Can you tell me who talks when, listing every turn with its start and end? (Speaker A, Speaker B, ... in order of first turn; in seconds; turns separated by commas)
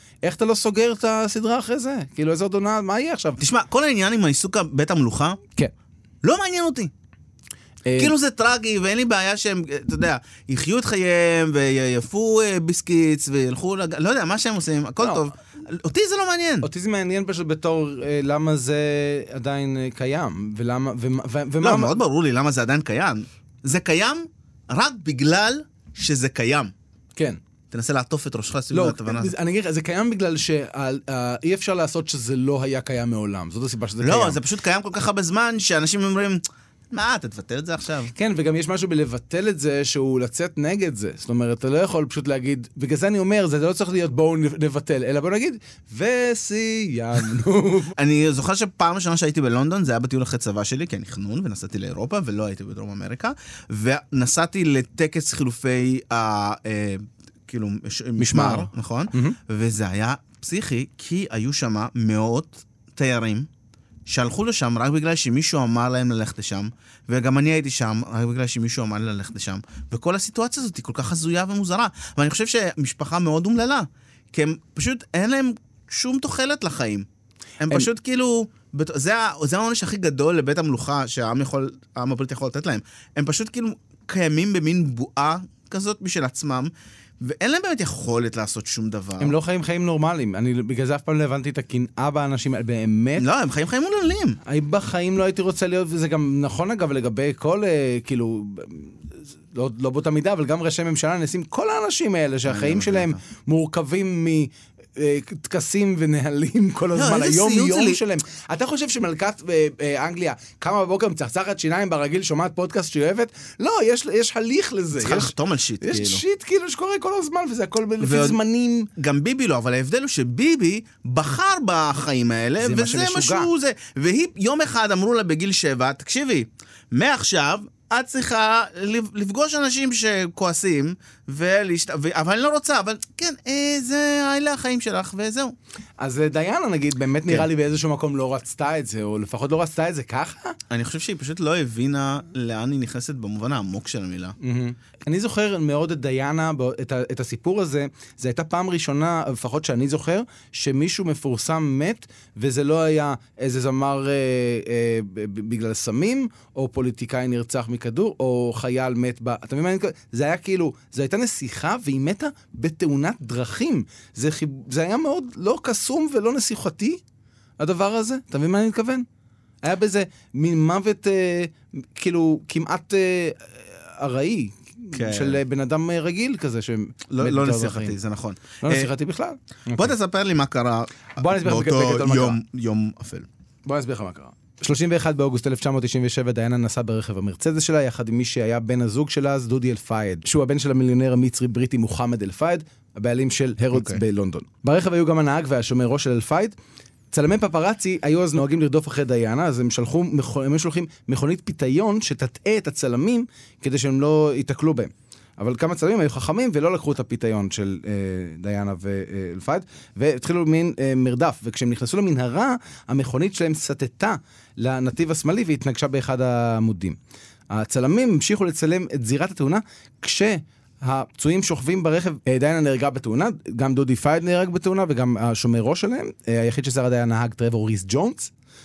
Speaker A: 0.2-3.4, Speaker B: 3.4-5.4, Speaker B: 6.2-6.9, Speaker A: 7.9-8.1, Speaker B: 8.0-16.7, Speaker A: 16.6-22.0, Speaker B: 21.6-26.7, Speaker B: 27.7-29.3, Speaker A: 28.7-34.4, Speaker B: 34.0-38.1, Speaker A: 38.1-47.9, Speaker B: 48.0-63.5, Speaker A: 58.2-59.4, Speaker B: 64.1-77.1, Speaker B: 77.6-86.7, Speaker B: 87.2-89.4, Speaker A: 89.2-93.2, Speaker B: 93.2-94.4, Speaker A: 94.5-99.0, Speaker A: 99.5-118.9, Speaker B: 102.5-103.2, Speaker B: 106.9-108.0, Speaker B: 115.0-116.2, Speaker B: 118.0-118.4, Speaker B: 119.0-135.6, Speaker A: 122.6-123.5, Speaker A: 136.0-140.6, Speaker B: 140.7-144.4, Speaker A: 144.4-167.0, Speaker A: 167.6-169.1, Speaker A: 169.6-177.9, Speaker B: 174.9-175.4, Speaker B: 177.1-178.9, Speaker A: 178.6-179.9, Speaker B: 179.8-183.3, Speaker A: 181.2-182.4, Speaker A: 183.7-196.6, Speaker B: 193.7-194.0, Speaker A: 197.1-217.0, Speaker A: 217.5-228.3